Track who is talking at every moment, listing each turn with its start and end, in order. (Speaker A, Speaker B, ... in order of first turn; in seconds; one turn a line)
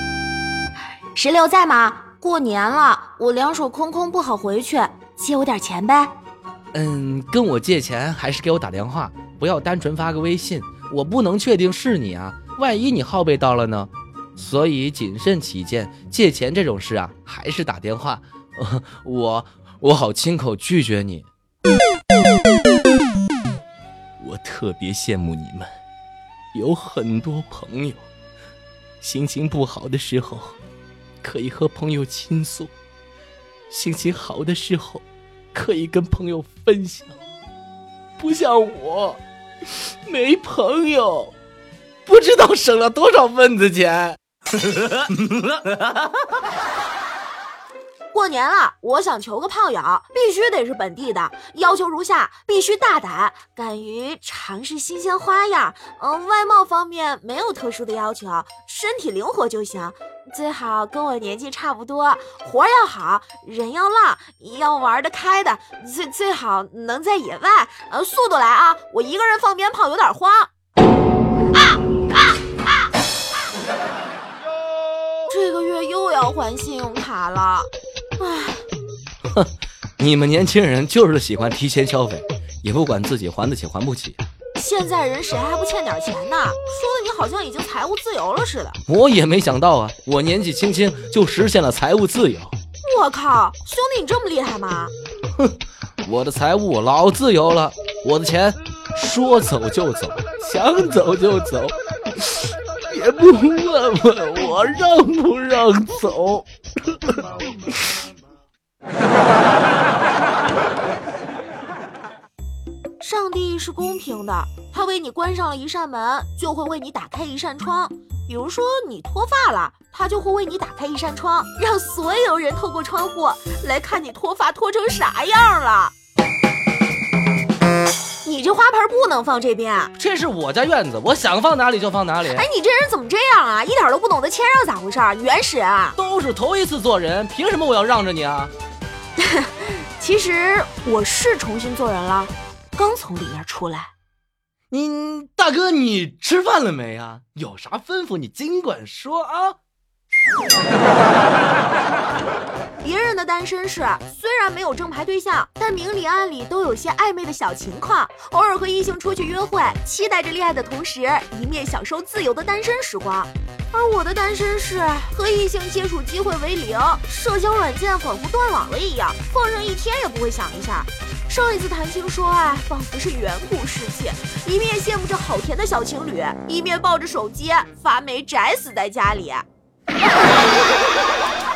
Speaker A: 1.1-6.1
Speaker B: 6.7-21.2
Speaker B: 24.2-25.7
Speaker B: 26.5-28.0
Speaker B: 29.0-30.6
Speaker B: 31.2-32.7
Speaker B: 33.7-37.2
Speaker B: 38.2-41.3
Speaker B: 42.0-46.1
Speaker A: 48.1-70.5
Speaker A: 75.3-78.7
Speaker B: 79.3-84.2
Speaker A: 84.5-88.8
Speaker B: 88.9-92.5
Speaker A: 92.8-94.9
Speaker B: 96.0-106.5
Speaker A: 113.0-125.9
Speaker A: 128.2-129.9
Speaker B: 130.0-132.5
Speaker A: 132.2-136.0
Speaker B: 135.9-138.5
Speaker A: 139.2-143.9
Speaker B: 144.7-149.6
Speaker A: 152.8-179.4